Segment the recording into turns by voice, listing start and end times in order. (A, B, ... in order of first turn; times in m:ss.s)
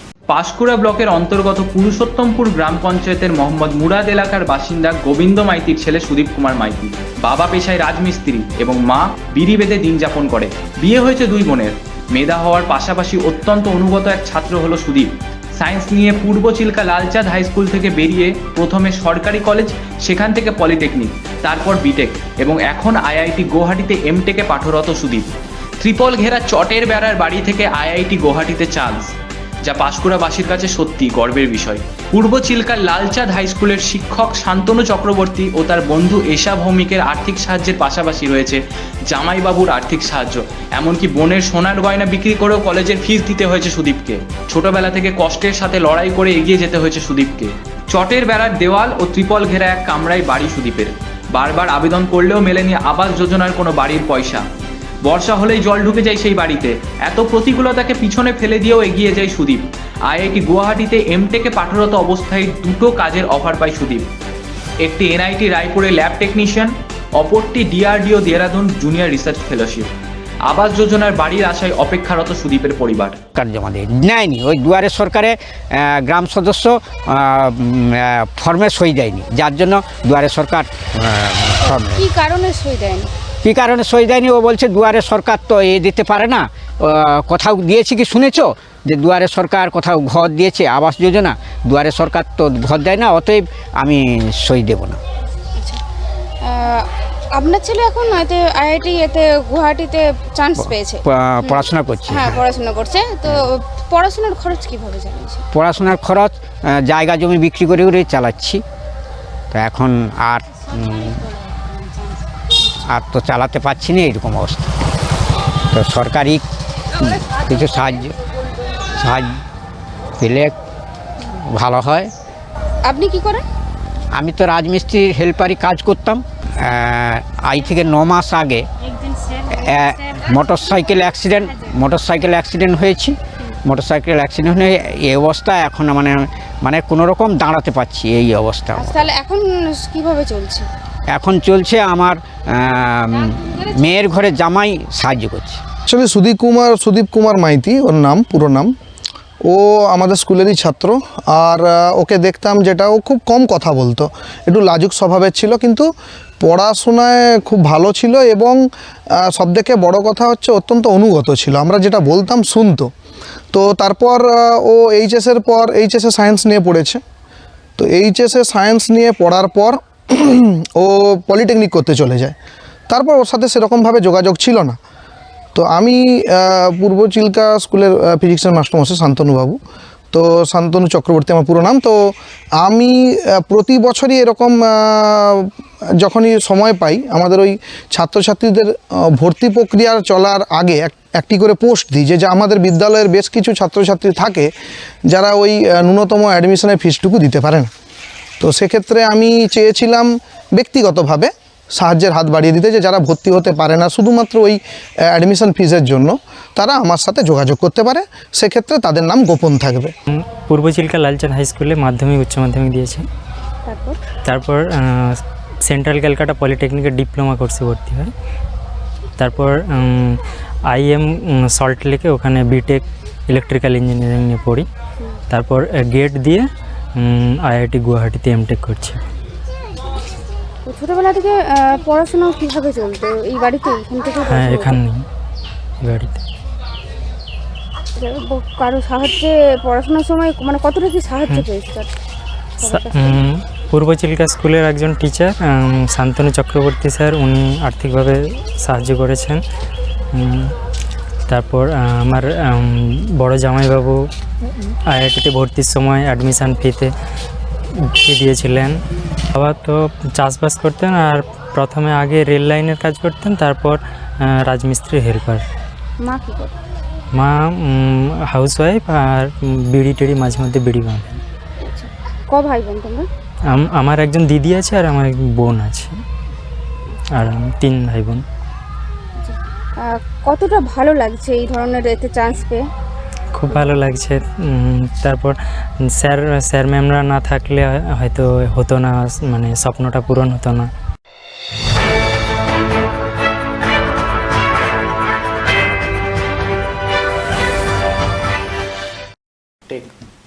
0:00.3-0:54.4 A
0:55.0-1:04.1 A
1:04.8-1:09.9 A
1:10.4-1:13.2 A
1:13.3-1:22.0 B
1:21.6-1:23.1 C
1:23.4-1:35.0 B
1:36.4-1:45.4 C
1:40.6-1:42.4 B
1:45.5-1:48.6 B
1:49.5-1:51.2 B
1:51.4-1:52.0 C
1:52.8-1:54.7 B
1:55.7-1:56.4 B
1:57.0-1:58.2 B
1:58.9-1:59.4 B
2:00.2-2:00.5 B
2:01.2-2:02.1 B
2:02.8-2:03.4 C
2:04.1-2:08.7 B
2:09.4-2:19.1 B
2:18.7-2:20.7 C
2:21.1-2:25.6 B
2:25.9-2:28.7 D
2:29.4-2:42.9 D
2:43.5-2:47.0 D
2:47.8-2:52.3 D
2:52.9-2:54.8 D
2:55.5-2:59.6 D
3:00.1-3:14.5 D
3:15.1-3:17.7 D
3:18.4-3:29.9 D
3:30.4-3:33.0 E
3:33.6-3:34.0 C
3:34.2-3:38.1 E
3:39.2-3:44.7 E
3:45.3-3:49.0 E
3:50.6-3:54.8 C
3:54.3-3:55.0 E
3:55.8-3:56.2 E
3:58.0-4:01.9 C
4:02.6-4:03.2 C
4:02.6-4:09.4 E
4:10.1-4:10.5 E
4:11.3-4:16.9 E
4:17.8-4:18.8 E
4:19.3-4:25.4 E
4:26.0-4:26.6 C
4:27.1-4:31.2 E
4:31.6-4:33.1 C
4:33.5-4:36.0 E
4:37.1-4:38.2 E
4:39.2-4:42.7 C
4:43.3-4:50.7 E